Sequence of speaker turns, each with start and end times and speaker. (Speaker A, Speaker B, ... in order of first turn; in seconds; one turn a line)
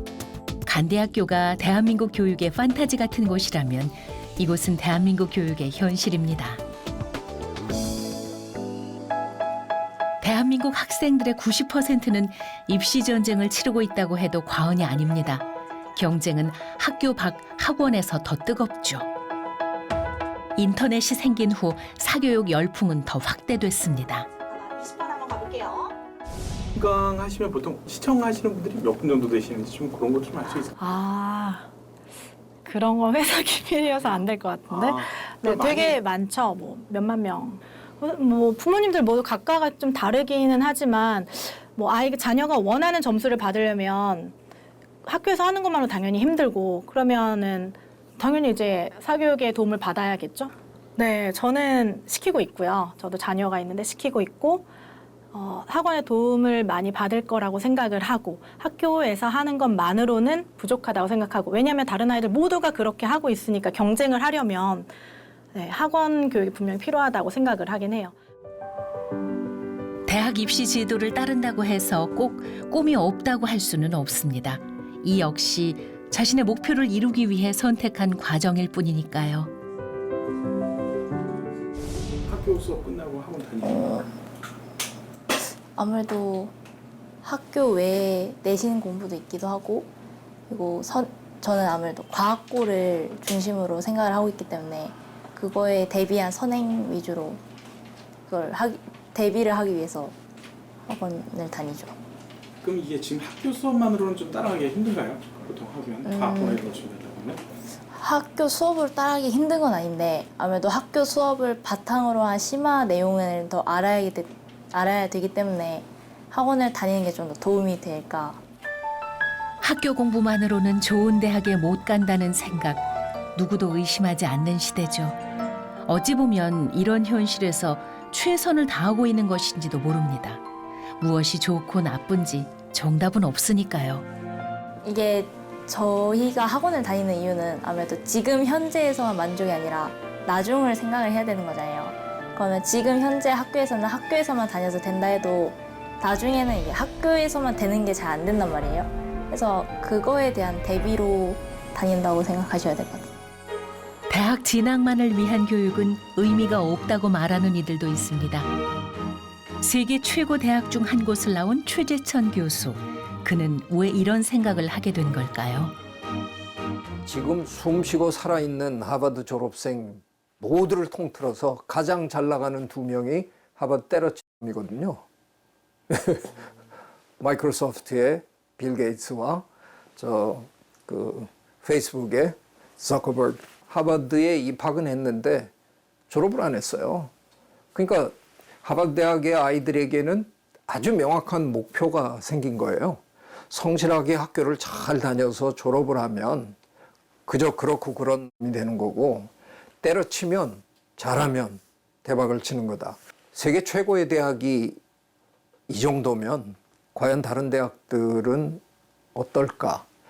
Speaker A: 0.7-6.6
Speaker A: 10.2-19.1
Speaker A: 20.6-24.3
Speaker B: 24.5-25.9
Speaker C: 26.7-30.8
Speaker B: 30.8-31.7
Speaker B: 32.6-44.3
Speaker C: 34.0-36.0
Speaker B: 45.0-54.6
Speaker B: 55.3-64.9
Speaker B: 65.5-68.1
Speaker A: 70.1-79.5
Speaker C: 82.3-84.0
Speaker D: 83.6-84.1
Speaker D: 85.8-86.5
Speaker D: 87.2-89.9
Speaker D: 90.5-97.4
Speaker D: 98.3-100.2
Speaker D: 100.9-101.9
Speaker C: 102.6-107.4
Speaker D: 106.1-106.6
Speaker D: 107.9-118.4
Speaker A: 119.6-125.2
Speaker A: 125.9-130.4
Speaker A: 131.0-134.1
Speaker D: 134.8-153.1
Speaker A: 154.1-158.5
Speaker A: 159.6-165.7
Speaker E: 167.0-175.0
Speaker E: 175.9-176.5
Speaker E: 177.2-179.4
Speaker E: 180.0-185.5
Speaker E: 186.1-187.1
Speaker E: 187.8-196.6
Speaker E: 197.3-199.3
Speaker E: 199.8-204.8
Speaker E: 205.7-208.6
Speaker E: 209.2-209.9